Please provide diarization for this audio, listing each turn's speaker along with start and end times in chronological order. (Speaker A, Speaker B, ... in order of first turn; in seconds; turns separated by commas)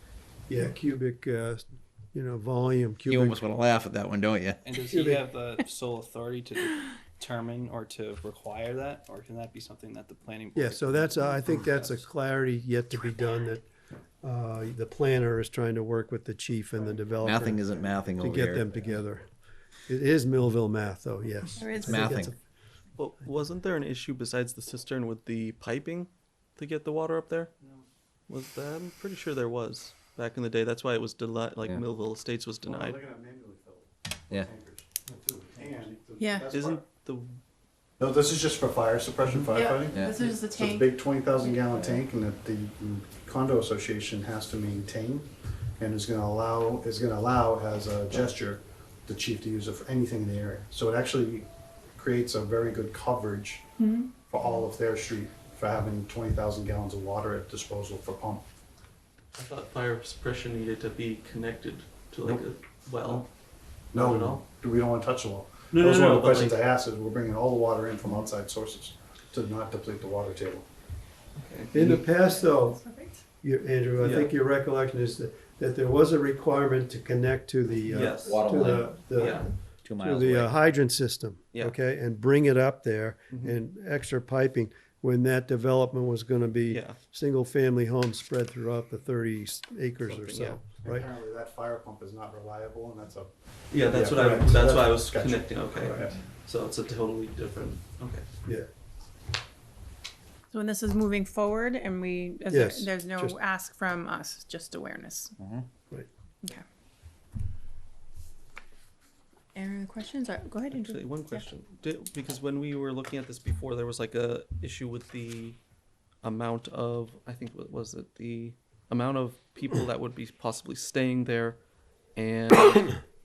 Speaker A: 0.5-3.4, Speaker B: 3.1-4.6, Speaker C: 4.6-12.0, Speaker A: 4.8-5.2, Speaker A: 10.5-13.7, Speaker A: 14.2-17.6, Speaker B: 17.2-19.0, Speaker A: 18.2-19.2, Speaker A: 19.9-22.4, Speaker D: 21.6-22.0, Speaker B: 21.8-22.3, Speaker E: 22.9-27.5, Speaker E: 28.3-33.0, Speaker F: 32.6-36.8, Speaker D: 36.2-36.5, Speaker E: 36.5-37.4, Speaker F: 38.0-53.6, Speaker D: 39.5-42.0, Speaker B: 39.9-40.2, Speaker D: 53.8-54.1, Speaker F: 54.2-58.4, Speaker E: 59.3-63.3, Speaker F: 63.9-70.7, Speaker E: 63.9-64.4, Speaker E: 65.7-66.7, Speaker E: 71.3-71.8, Speaker A: 71.7-72.8, Speaker D: 72.2-73.2, Speaker A: 73.4-79.5, Speaker E: 74.0-74.3, Speaker E: 77.9-78.4, Speaker B: 78.2-79.3, Speaker E: 79.1-79.5, Speaker B: 79.8-80.5, Speaker A: 80.0-91.1, Speaker E: 83.3-83.5, Speaker E: 86.7-87.0, Speaker E: 90.0-90.6, Speaker F: 90.8-96.1, Speaker E: 93.7-98.2, Speaker D: 100.5-105.3, Speaker A: 102.5-103.4, Speaker B: 105.4-105.7, Speaker D: 109.5-111.4, Speaker E: 110.7-115.6, Speaker E: 116.2-121.6, Speaker E: 122.1-123.0